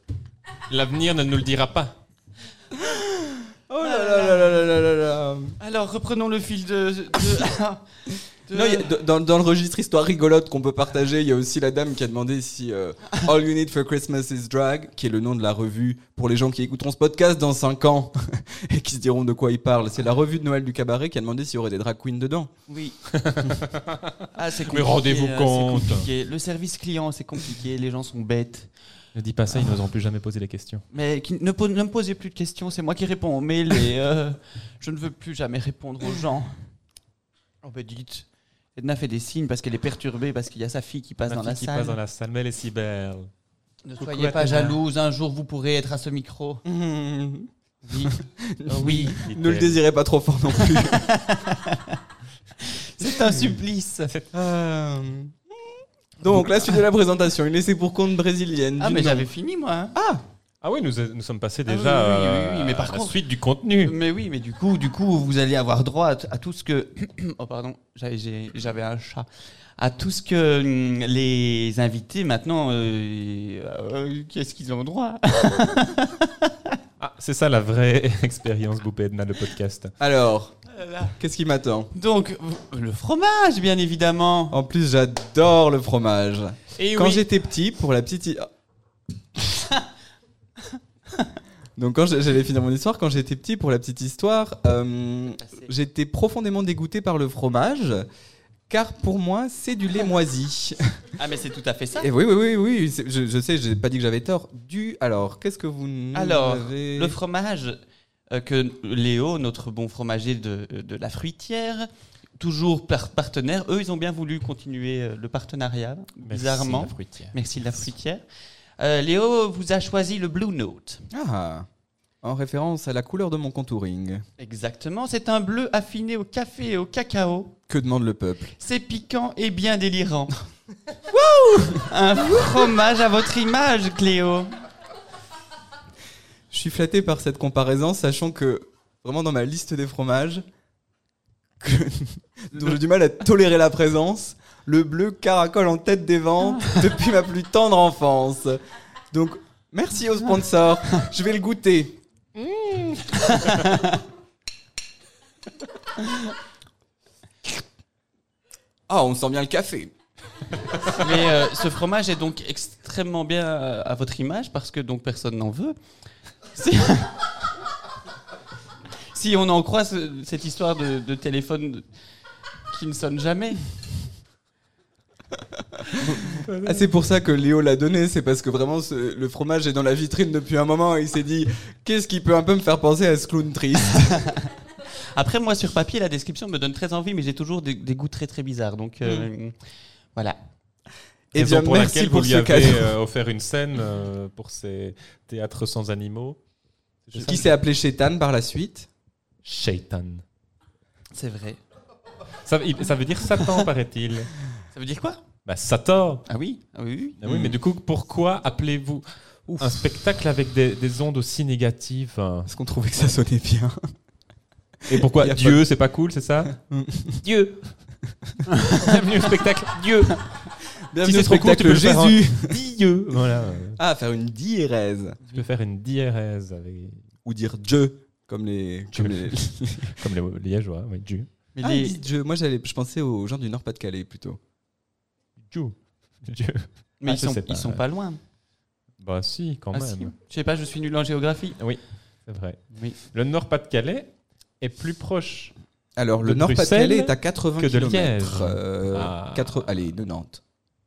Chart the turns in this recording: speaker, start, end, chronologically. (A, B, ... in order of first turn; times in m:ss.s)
0:00.7-0:02.0 A
0:02.7-0:05.6 B
0:03.8-0:04.7 C
0:05.6-0:07.8 C
0:08.4-0:08.9 C
0:08.5-0:22.5 B
0:22.7-0:23.0 C
0:23.1-0:26.1 A
0:24.3-0:28.7 C
0:29.1-0:30.8 A
0:30.9-0:36.5 C
0:37.6-0:42.0 C
0:41.3-0:43.3 A
0:43.8-0:46.6 C
0:44.0-0:44.8 A
0:46.6-0:47.5 B
0:47.8-0:48.1 C
0:48.0-0:51.1 B
0:48.7-0:49.2 C
0:48.8-0:49.8 A
0:50.6-0:52.0 C
0:52.6-0:54.1 C
0:53.2-0:53.5 B
0:54.3-0:59.3 B
0:58.8-0:59.9 C
0:59.9-1:00.2 B
1:00.6-1:03.9 A
1:01.7-1:03.2 C
1:03.8-1:16.8 C
1:17.0-1:19.9 A
1:20.0-1:20.6 B
1:20.8-1:21.1 C
1:21.2-1:21.9 B
1:21.9-1:24.6 C
1:24.5-1:28.5 B
1:26.8-1:27.2 A
1:31.8-1:38.0 B
1:35.4-1:35.7 C
1:38.7-1:40.8 B
1:41.2-1:42.1 C
1:42.0-1:47.2 B
1:46.1-1:58.2 C
1:56.2-1:57.3 A
1:58.8-2:01.1 C
2:01.1-2:01.7 B
2:02.2-2:04.2 B
2:04.4-2:07.6 C
2:07.7-2:08.5 B
2:08.6-2:10.5 C
2:11.1-2:12.3 B
2:11.9-2:14.5 C
2:16.5-2:20.4 B
2:21.6-2:28.6 B
2:29.1-2:32.0 B
2:32.4-2:33.6 A
2:33.3-2:34.0 C
2:38.9-2:39.9 B
2:40.9-2:45.8 C
2:46.5-2:47.2 C
2:49.1-2:51.9 C
2:52.7-2:53.7 C
2:55.7-3:04.3 B
2:56.0-2:56.9 A
3:04.2-3:04.5 C
3:05.1-3:09.6 C
3:11.3-3:12.9 B
3:11.3-3:16.4 A
3:17.0-3:17.5 A
3:17.2-3:18.9 B
3:19.4-3:20.2 A
3:21.1-3:21.6 C
3:22.4-3:24.3 A
3:24.7-3:25.2 C
3:25.4-3:26.2 A
3:26.3-3:27.2 C
3:27.2-3:29.0 A
3:27.2-3:27.6 B
3:29.5-3:29.9 B
3:29.6-3:32.5 A
3:32.5-3:33.8 B
3:34.8-3:35.6 B
3:34.9-3:36.5 A
3:36.5-3:37.2 B
3:37.2-3:37.8 A
3:38.5-3:40.4 A
3:40.9-3:42.6 B
3:41.0-3:43.8 A
3:43.8-3:45.2 B
3:45.3-3:47.0 A
3:47.2-3:50.0 B
3:48.9-3:51.3 A
3:51.5-3:52.0 C
3:51.6-3:54.4 B
3:55.4-3:57.8 A
3:57.0-3:58.2 C
3:59.0-4:00.1 A
3:59.7-4:01.6 C
4:01.6-4:05.5 A
4:06.0-4:10.4 B
4:06.2-4:09.7 A